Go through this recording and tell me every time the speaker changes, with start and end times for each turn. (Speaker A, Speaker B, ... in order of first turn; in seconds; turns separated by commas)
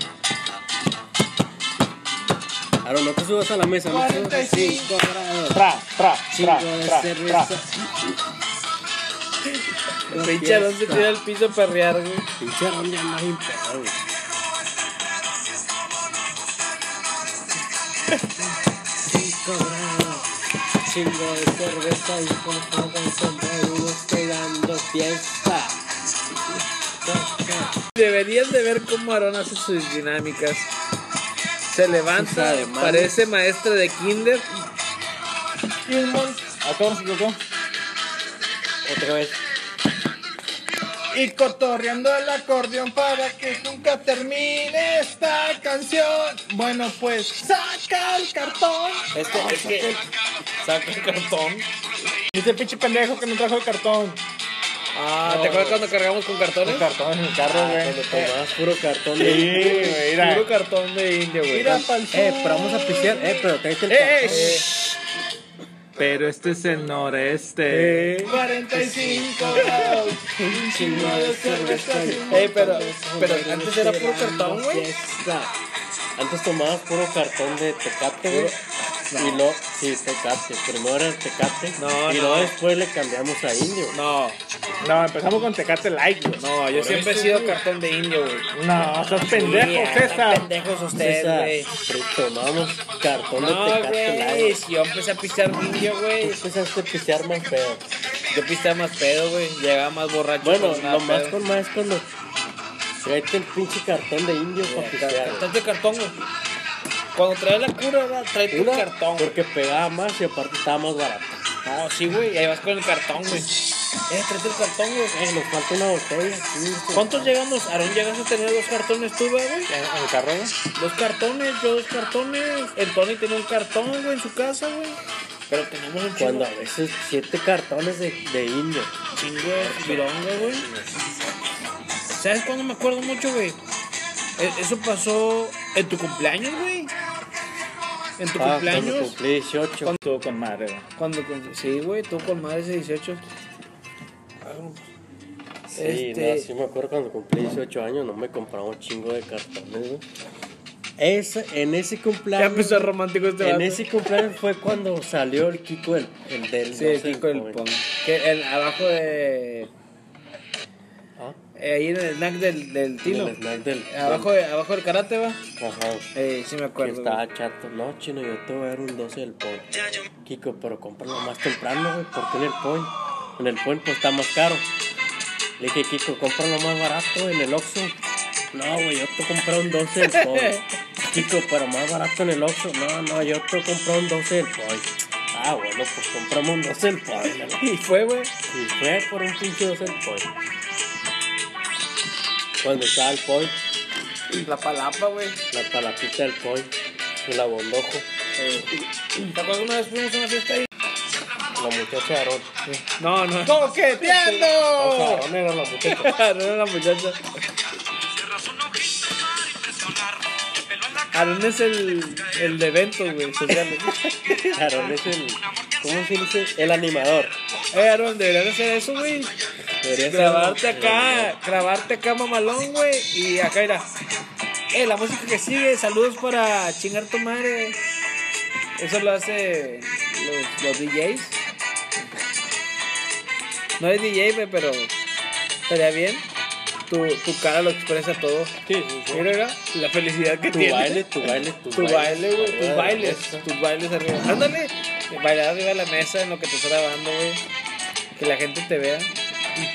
Speaker A: 2.8-5.6, Speaker B: 3.9-4.9, Speaker C: 4.1-5.0, Speaker B: 5.5-7.5, Speaker A: 6.3-8.2, Speaker A: 10.1-11.2, Speaker C: 10.1-12.3, Speaker A: 12.4-14.0, Speaker A: 19.0-20.3, Speaker A: 20.8-25.8, Speaker A: 27.0-27.8, Speaker C: 27.9-30.7, Speaker C: 31.6-34.5, Speaker A: 32.1-33.1, Speaker B: 35.9-37.4, Speaker A: 38.8-39.4, Speaker B: 41.1-49.6, Speaker C: 49.1-50.0, Speaker A: 49.6-49.9, Speaker C: 50.6-51.7, Speaker B: 52.3-54.2, Speaker C: 54.9-56.9, Speaker B: 55.3-55.8, Speaker B: 56.6-58.3, Speaker A: 57.4-60.0, Speaker B: 59.1-60.5, Speaker C: 59.5-61.8, Speaker B: 61.5-64.6, Speaker A: 61.6-64.6, Speaker C: 64.2-64.7, Speaker B: 66.0-72.9, Speaker C: 67.7-68.4, Speaker A: 68.7-75.5, Speaker C: 72.3-74.9, Speaker A: 76.2-78.5, Speaker C: 78.3-79.4, Speaker A: 79.1-84.0, Speaker C: 81.8-82.6, Speaker C: 83.9-84.4, Speaker B: 84.8-86.4, Speaker C: 86.4-91.7, Speaker A: 86.7-87.6, Speaker B: 88.5-90.5, Speaker A: 91.0-94.6, Speaker C: 93.4-96.4, Speaker A: 96.2-97.8, Speaker C: 98.3-101.4, Speaker A: 100.4-102.1, Speaker A: 102.9-105.5, Speaker C: 104.6-106.2, Speaker C: 107.1-109.3, Speaker A: 108.5-111.4, Speaker C: 111.6-113.5, Speaker C: 114.1-115.2, Speaker A: 115.1-117.3, Speaker C: 116.9-119.7, Speaker B: 119.7-120.5, Speaker C: 120.7-125.0, Speaker C: 125.5-126.5, Speaker A: 126.2-128.9, Speaker C: 129.1-130.7, Speaker A: 129.5-131.0, Speaker C: 132.2-133.6, Speaker C: 134.4-136.9, Speaker C: 138.2-139.2, Speaker A: 138.4-139.9, Speaker B: 140.0-140.8, Speaker C: 141.0-143.2, Speaker C: 144.4-144.8, Speaker A: 145.7-150.0, Speaker C: 145.8-146.5, Speaker A: 151.0-157.6, Speaker C: 152.3-153.9, Speaker C: 156.7-159.7, Speaker C: 161.5-163.4, Speaker A: 163.0-164.3, Speaker C: 163.9-165.4, Speaker A: 165.6-166.1, Speaker C: 166.1-167.2, Speaker A: 166.8-174.7, Speaker A: 175.6-178.0, Speaker A: 178.5-187.6, Speaker C: 180.1-180.6, Speaker C: 187.6-188.3, Speaker A: 188.5-190.3, Speaker A: 192.6-193.6, Speaker C: 194.4-195.4, Speaker A: 195.5-198.1, Speaker C: 198.4-198.7, Speaker C: 199.3-200.7, Speaker A: 201.5-202.5, Speaker C: 202.7-204.5, Speaker B: 203.4-205.2, Speaker A: 204.7-206.2, Speaker C: 205.8-207.4, Speaker C: 211.1-214.6, Speaker A: 213.5-217.3, Speaker C: 217.7-219.3, Speaker A: 219.8-221.4, Speaker C: 220.1-223.9, Speaker C: 224.7-227.8, Speaker C: 228.8-231.4, Speaker C: 233.8-234.9, Speaker C: 235.7-236.3, Speaker C: 236.9-247.4, Speaker A: 238.6-239.3, Speaker A: 240.5-243.4, Speaker C: 248.2-249.1